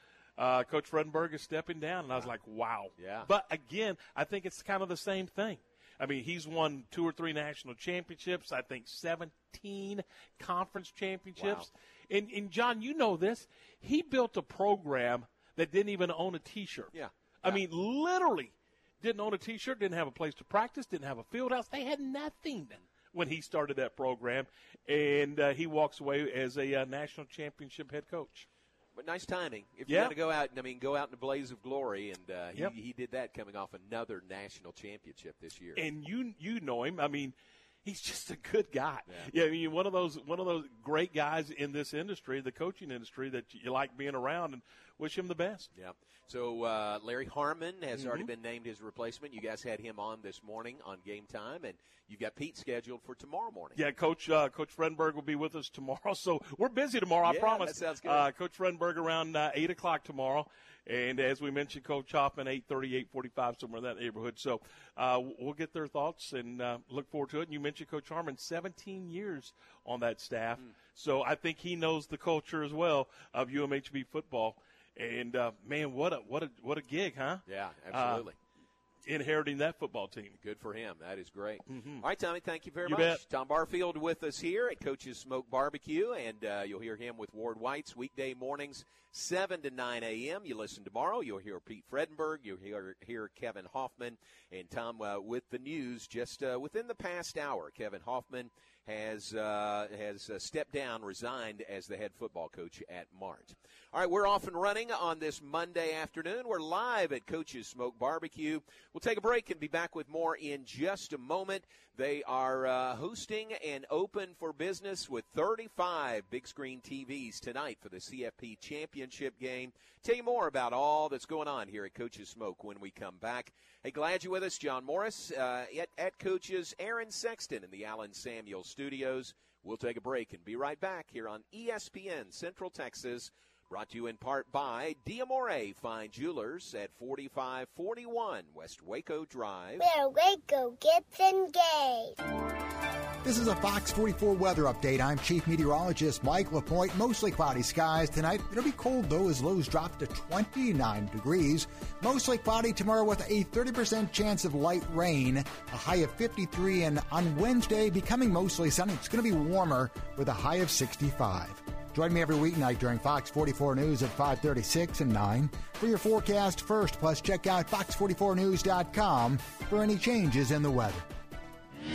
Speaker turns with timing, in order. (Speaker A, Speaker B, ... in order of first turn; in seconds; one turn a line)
Speaker A: 0.4-28.5
Speaker B: 3.0-3.3
Speaker B: 11.4-11.7
Speaker B: 16.9-17.6
Speaker B: 28.9-35.9
Speaker A: 29.9-30.1
Speaker A: 35.8-45.7
Speaker B: 45.7-53.8
Speaker A: 48.0-48.3
Speaker A: 53.8-78.3
Speaker B: 57.2-58.3
Speaker B: 77.5-78.4
Speaker A: 79.0-80.4
Speaker B: 80.4-139.9
Speaker A: 81.7-82.0
Speaker A: 82.8-83.2
Speaker C: 139.8-142.1
Speaker D: 143.2-171.1